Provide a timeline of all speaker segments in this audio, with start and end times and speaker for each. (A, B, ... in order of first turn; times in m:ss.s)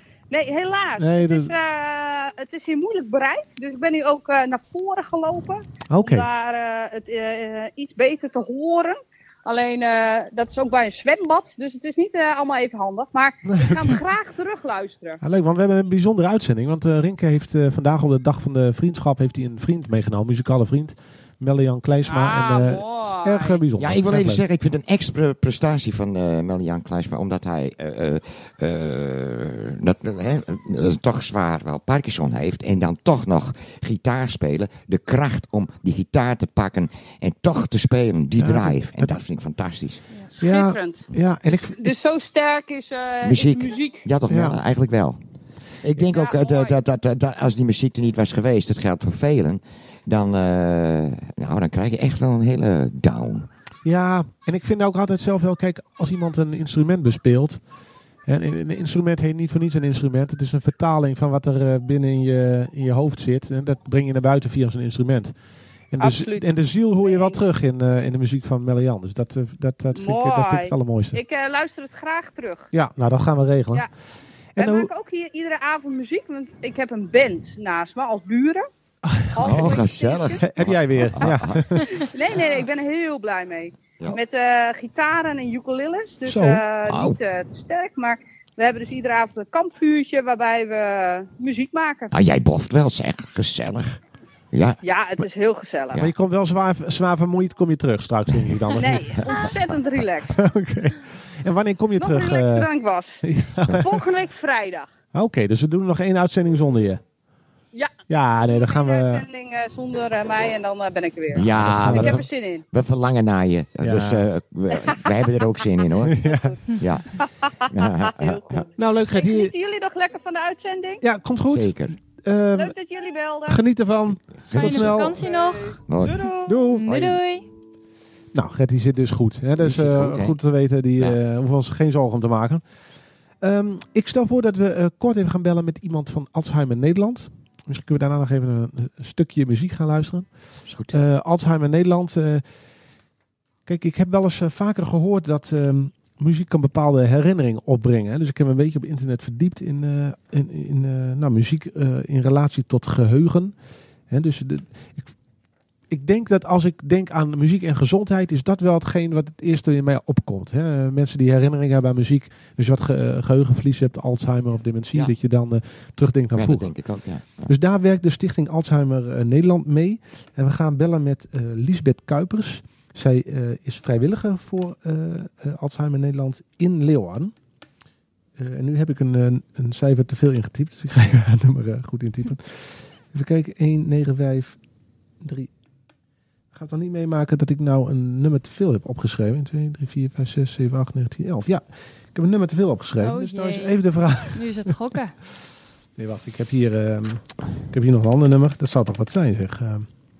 0:00.3-0:15.2 A
0:01.0-0:01.5 B
0:05.9-0:06.3 B
0:13.4-0:14.0 B
0:15.2-0:24.4 B
0:22.0-0:23.6 A
0:23.8-0:40.2 C
0:38.4-0:39.2 B
0:40.3-0:44.1 A
0:40.4-0:41.9 B
0:43.2-0:53.5 C
0:44.3-0:44.6 B
0:46.0-0:46.7 A
0:53.8-0:57.7 B
0:58.2-1:11.2 B
1:06.0-1:07.4 A
1:09.9-1:12.7 A
1:12.7-1:13.9 B
1:14.5-1:14.9 B
1:14.6-1:18.6 A
1:19.0-1:19.7 B
1:19.3-1:20.5 A
1:19.4-1:22.2 C
1:20.4-1:22.0 B
1:21.9-1:32.1 A
1:26.2-1:26.6 B
1:26.9-1:27.2 C
1:32.1-1:34.0 C
1:34.5-1:34.8 C
1:34.8-1:36.1 A
1:36.0-1:39.2 B
1:38.3-1:40.0 C
1:38.7-1:40.4 A
1:40.3-1:42.7 B
1:42.0-1:44.9 A
1:43.2-1:44.0 B
1:45.1-1:47.0 B
1:47.7-1:52.6 A
1:48.1-1:49.2 B
1:51.3-1:58.4 C
1:51.3-1:52.2 B
1:53.8-1:54.3 B
1:54.7-1:55.6 A
1:56.1-2:01.0 A
1:56.1-1:56.6 B
1:58.5-1:59.5 B
2:01.0-2:02.8 B
2:01.5-2:02.0 C
2:02.5-2:03.6 A
2:03.5-2:05.2 B
2:04.3-2:05.2 C
2:04.5-2:07.4 D
2:05.1-2:06.8 A
2:05.8-2:06.3 C
2:06.4-2:07.0 B
2:06.8-2:07.2 C
2:08.3-2:22.6 B
2:09.6-2:10.4 C
2:20.6-2:21.0 C
2:23.6-2:35.1 B
2:35.9-2:46.8 B
2:46.3-2:47.5 C
2:47.4-2:57.4 B
2:58.4-3:04.6 B
3:05.2-3:05.5 B
3:06.5-3:14.7 B
3:13.0-3:15.2 D
3:16.0-3:19.9 B